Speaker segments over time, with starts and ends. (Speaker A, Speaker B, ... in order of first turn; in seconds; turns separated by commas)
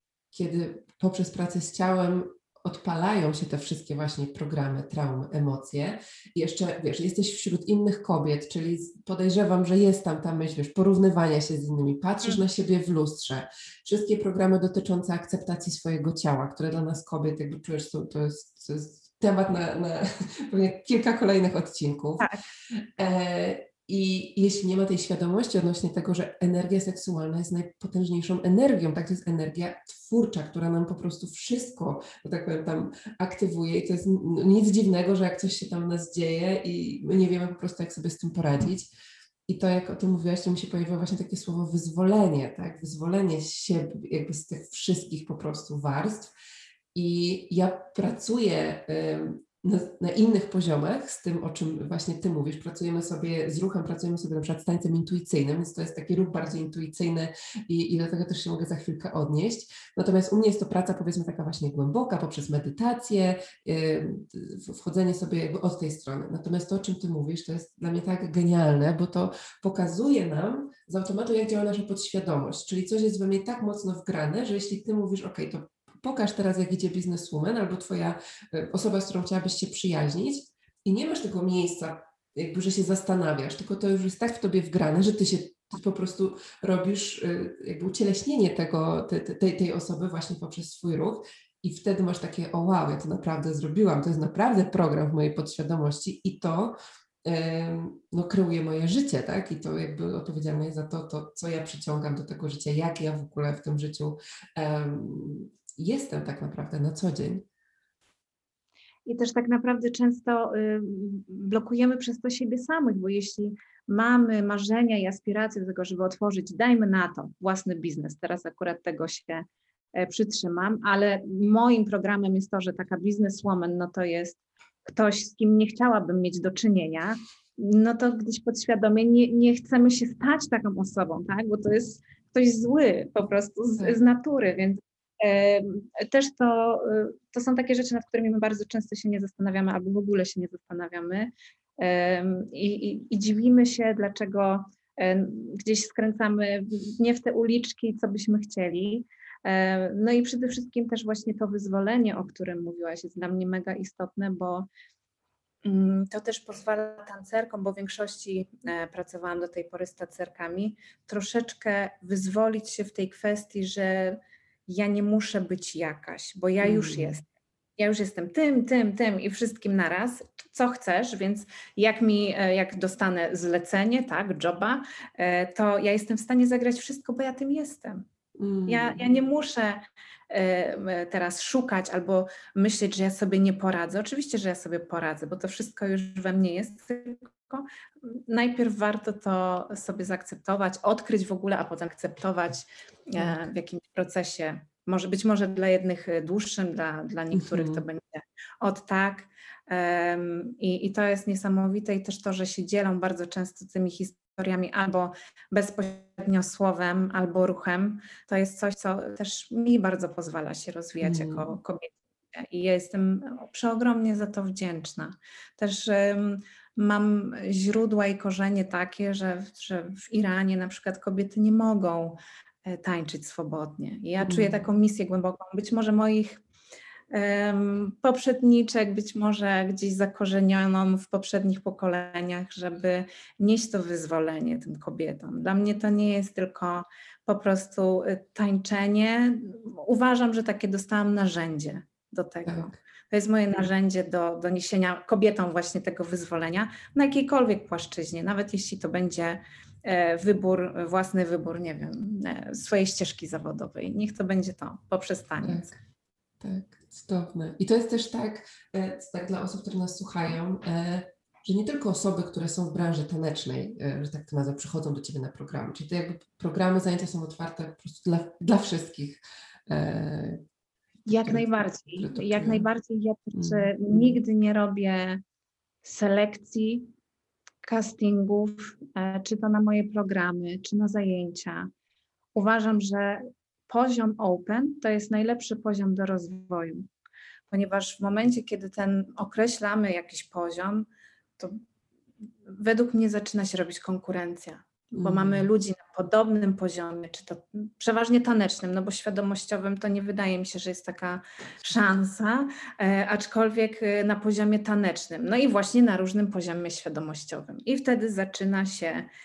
Speaker A: 0.3-22.3, Speaker A: 23.0-38.9, Speaker A: 39.5-46.3, Speaker A: 46.9-107.5, Speaker B: 109.1-154.7, Speaker B: 155.6-167.3, Speaker A: 166.6-167.2, Speaker B: 167.8-178.0, Speaker A: 178.4-179.1, Speaker B: 178.7-226.4, Speaker A: 197.3-197.8, Speaker A: 211.0-211.6, Speaker A: 224.2-224.7, Speaker B: 227.1-255.7, Speaker A: 242.5-242.8, Speaker A: 255.4-255.8, Speaker A: 256.4-270.4, Speaker B: 271.1-275.2, Speaker A: 271.2-272.7, Speaker A: 273.3-273.9, Speaker B: 275.8-276.9, Speaker B: 277.6-281.7, Speaker B: 282.4-286.9, Speaker B: 287.5-291.6, Speaker B: 292.4-309.1, Speaker A: 294.9-295.5